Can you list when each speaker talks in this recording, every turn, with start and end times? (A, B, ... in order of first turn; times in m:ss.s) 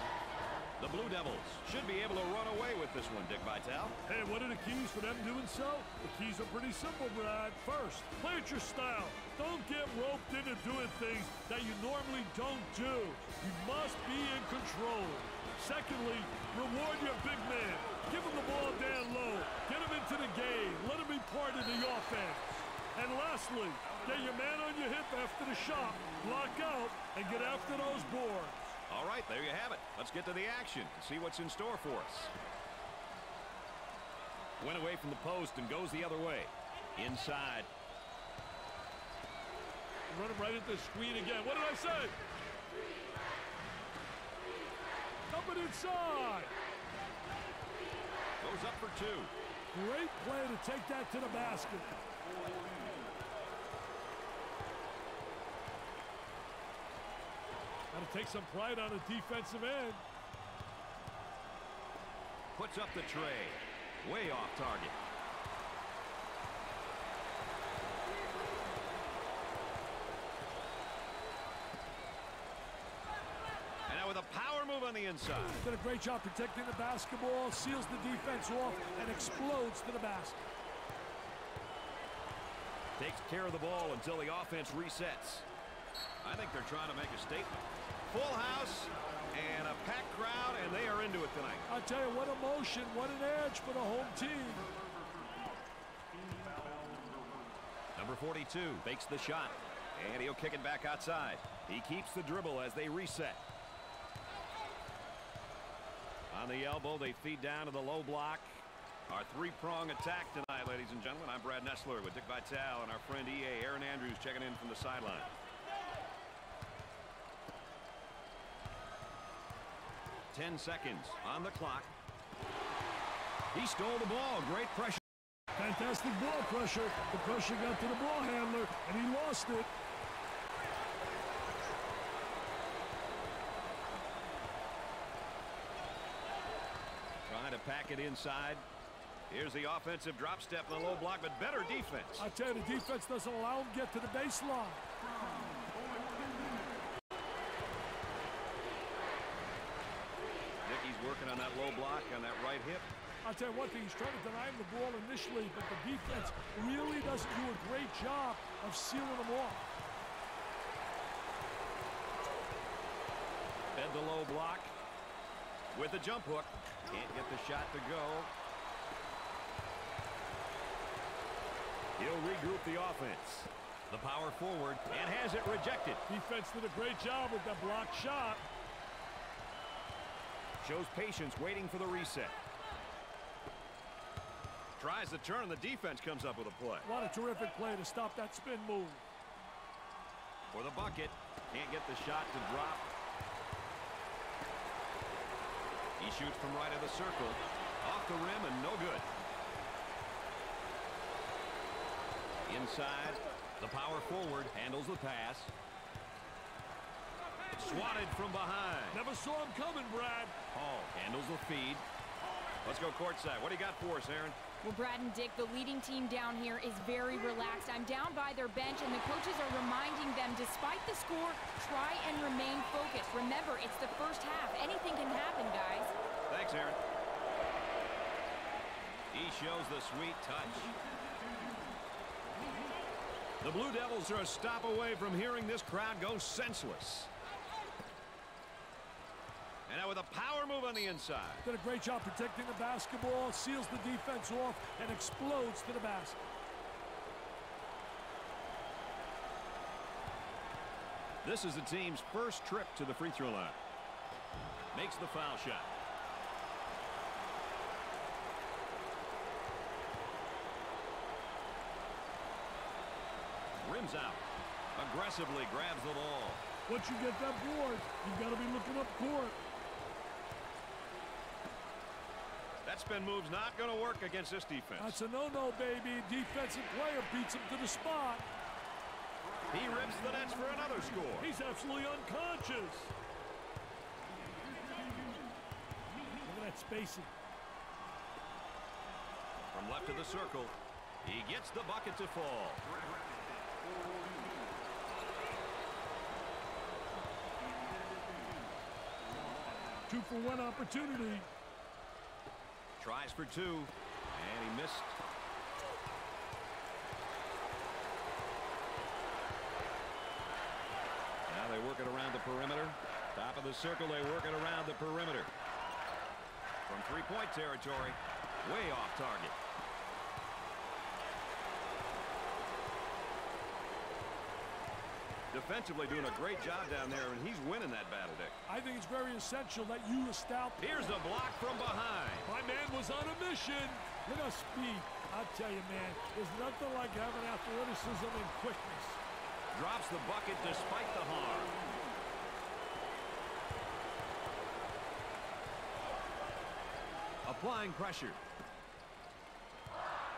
0:00.8-0:04.0 A
0:04.1-0:28.8 B
0:28.9-0:32.3 A
0:34.6-0:37.7 A
0:40.1-0:42.1 B
0:45.3-0:46.6 B
0:48.4-0:49.3 A
0:49.7-0:52.0 B
0:57.9-1:00.0 B
1:02.5-1:05.0 A
1:13.9-1:15.6 A
1:15.6-1:20.4 B
1:23.0-1:25.5 A
1:26.2-1:31.6 A
1:31.7-1:34.7 B
1:38.0-1:43.4 A
1:46.3-1:55.3 A
2:00.3-2:01.9 A
2:03.5-2:05.0 A
2:05.6-2:09.7 B
2:17.2-2:18.6 A
2:19.3-2:22.3 A
2:22.2-2:24.8 B
2:30.6-2:32.9 A
2:33.2-2:39.7 B
2:43.7-2:44.7 A
2:45.7-2:48.3 A
2:52.0-2:56.0 A
2:56.1-2:58.4 B
3:00.6-3:02.4 A
3:04.8-3:06.9 A
3:06.8-3:09.0 B
3:10.5-3:12.9 A
3:16.0-3:19.1 A
3:22.5-3:25.5 A
3:27.6-3:29.0 A
3:28.9-3:30.4 B
3:30.5-3:31.8 A
3:32.6-3:34.4 A
3:34.6-3:45.9 C
3:46.3-3:46.8 A
3:49.1-3:50.7 A
3:53.4-3:57.1 A
3:59.7-4:01.4 A
4:01.4-4:06.2 B
4:11.2-4:13.6 A
4:14.7-4:15.7 A
4:23.6-4:24.2 A
4:24.8-4:26.4 A
4:26.7-4:29.4 B
4:32.6-4:35.0 A
4:34.8-4:38.3 B
4:39.5-4:41.3 A
4:41.2-4:42.9 B
4:46.2-4:47.1 B
4:49.5-4:52.6 A
4:59.9-5:01.3 B
5:02.8-5:05.0 A
5:11.3-5:15.3 A
5:16.7-5:19.4 A
5:25.3-5:28.4 A
5:28.5-5:30.7 B
5:30.6-5:32.3 A
5:32.2-5:39.0 B
5:39.5-5:41.5 A
5:47.2-5:48.2 A